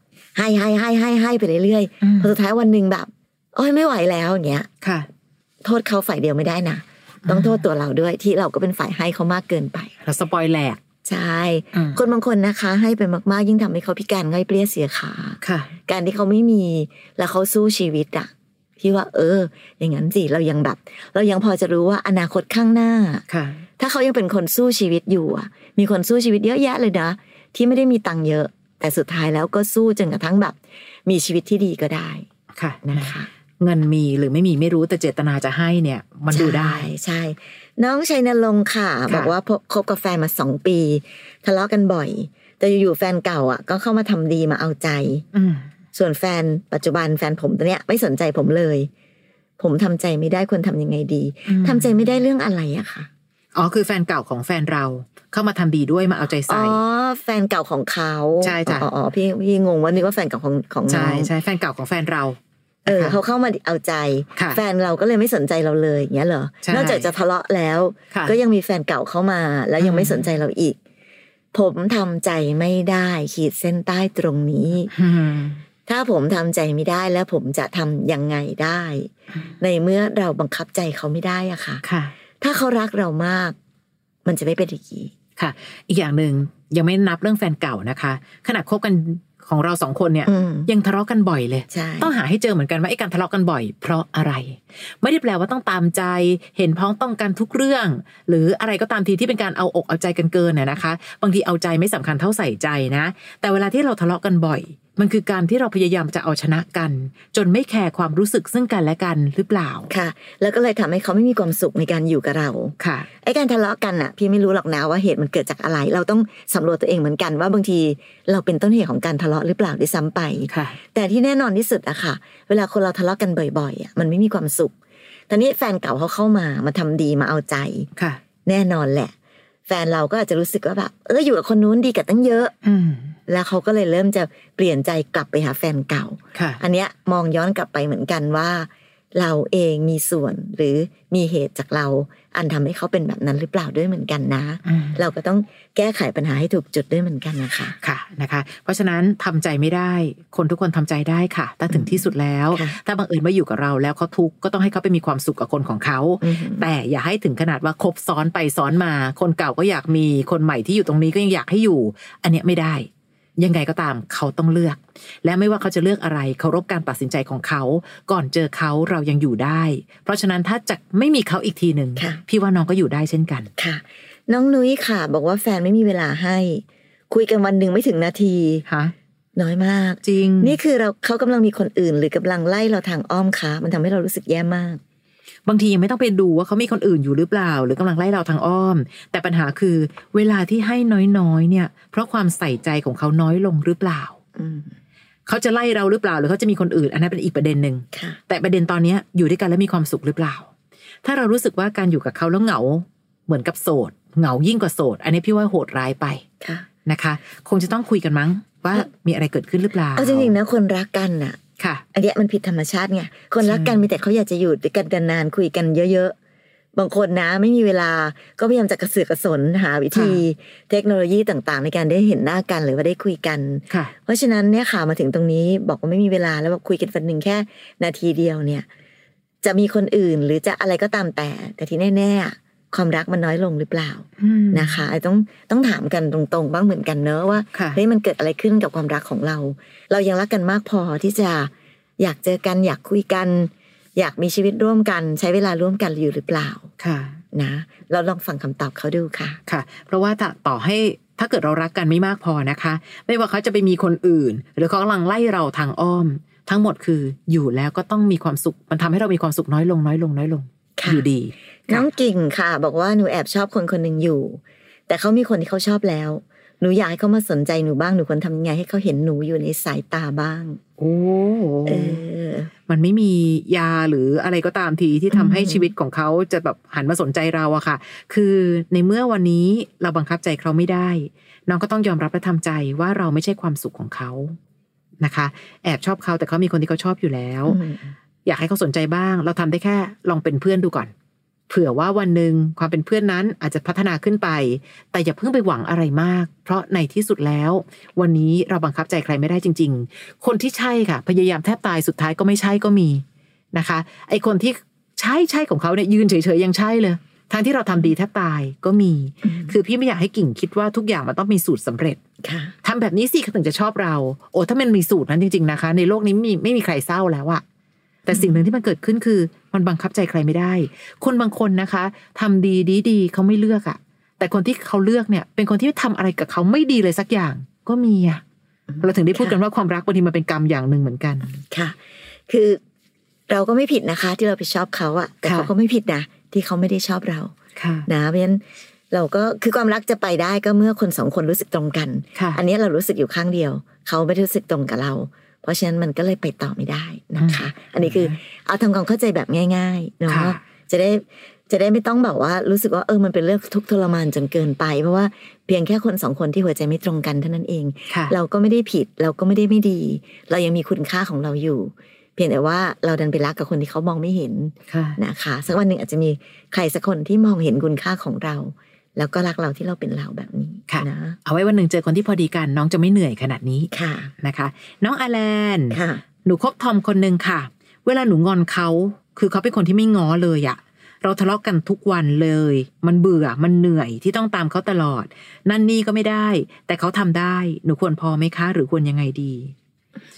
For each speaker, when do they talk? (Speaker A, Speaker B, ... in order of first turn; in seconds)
Speaker A: 0.3-4.7, 5.6-9.9, 11.1-23.2, 23.8-32.3, 32.8-33.3, 36.3-45.2, 46.0-48.9, 49.6-53.1, 56.5-61.3, 62.9-70.8, 71.5-74.9, 75.9-81.8, 82.4-83.5, 84.2-85.1, 90.3-90.7, 91.7-92.1, 109.9-124.7, 125.3-127.9, 128.5-129.1, 129.7-132.5, 133.3-147.8, 151.7-152.0, 152.5-152.8, 156.2-156.7, 173.6-178.7, 179.4-184.8, 194.4-194.7, 197.9-198.2, 206.4-206.7, 210.0-211.4, 211.9-216.2, 216.8-228.7, 229.4-246.7, 247.3-249.4, 260.8-261.0, 261.7-270.6, 271.7-272.5, 275.1-275.7, 287.5-287.9, 309.2-309.5, 312.2-312.5, 318.1-318.4, 328.7-329.4, 331.5-331.8, 332.3-332.6, 333.3-337.3, 337.9-371.2, 373.7-374.1, 375.7-376.0
Speaker B: 2.0-2.3, 4.8-5.1, 7.3-7.6, 10.0-10.8, 11.7-12.0, 15.4-15.7, 23.3-23.6, 32.5-36.9, 45.3-45.7, 51.5-51.9, 53.5-56.8, 58.4-58.9, 60.9-63.2, 66.6-67.1, 69.8-70.3, 74.9-75.6, 81.8-82.1, 85.4-109.9, 112.8-113.1, 120.5-120.8, 132.6-133.2, 136.3-136.6, 144.7-145.0, 147.8-173.5, 178.7-178.9, 180.0-180.6, 185.5-194.2, 195.3-200.5, 201.0-206.2, 206.8-210.4, 211.6-211.8, 213.4-213.8, 219.9-220.2, 234.2-234.8, 237.5-237.8, 246.8-247.2, 249.5-261.9, 270.8-272.0, 272.7-284.4, 285.0-287.6, 288.2-290.9, 291.5-312.0, 312.6-317.4, 318.1-328.2, 328.8-331.4, 335.2-335.5, 337.6-337.9, 342.1-342.4, 347.2-348.1, 350.1-350.4, 357.9-358.1, 364.7-365.0, 370.7-389.5